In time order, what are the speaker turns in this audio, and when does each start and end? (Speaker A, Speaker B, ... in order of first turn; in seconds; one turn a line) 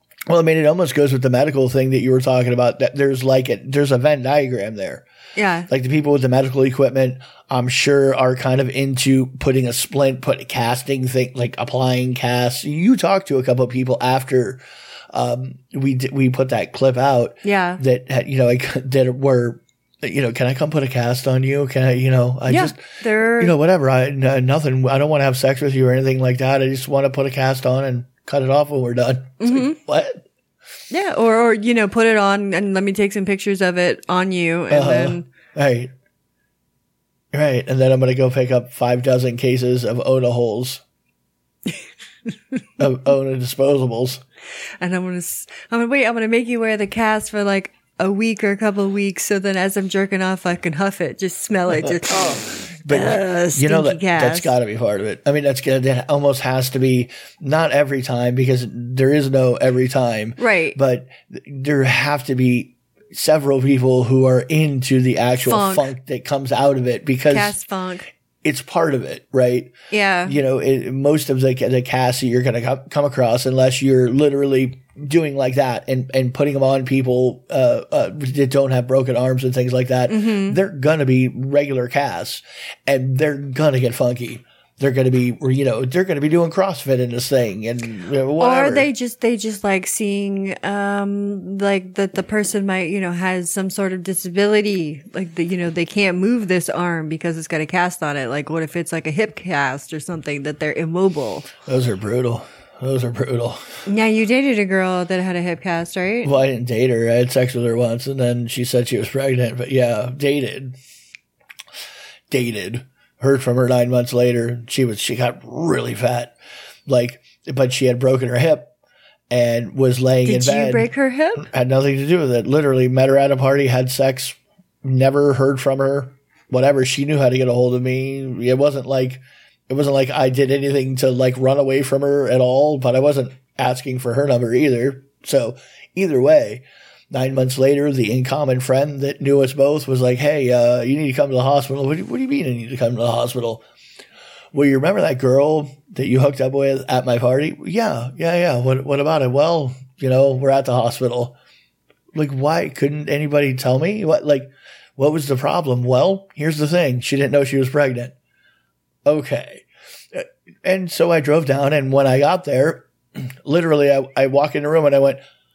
Speaker A: 0.3-5.0
Speaker B: 5.3-5.7
Speaker A: 5.7-30.2
Speaker B: 17.4-17.8
Speaker B: 22.5-23.5
Speaker B: 29.4-29.8
Speaker B: 30.9-35.3
Speaker A: 34.7-35.9
Speaker A: 37.3-40.8
Speaker A: 42.8-44.2
Speaker B: 44.8-54.5
Speaker A: 51.8-67.5
Speaker B: 60.4-60.8
Speaker B: 65.4-65.9
Speaker B: 67.3-68.0
Speaker A: 68.4-88.9
Speaker B: 69.9-70.4
Speaker B: 80.1-80.6
Speaker B: 88.4-101.5
Speaker A: 101.7-103.6
Speaker B: 103.8-106.3
Speaker A: 106.2-110.8
Speaker A: 112.3-116.3
Speaker A: 116.9-118.7
Speaker A: 119.3-143.6
Speaker B: 120.2-121.5
Speaker A: 144.5-151.3
Speaker A: 152.1-158.1
Speaker A: 159.0-165.2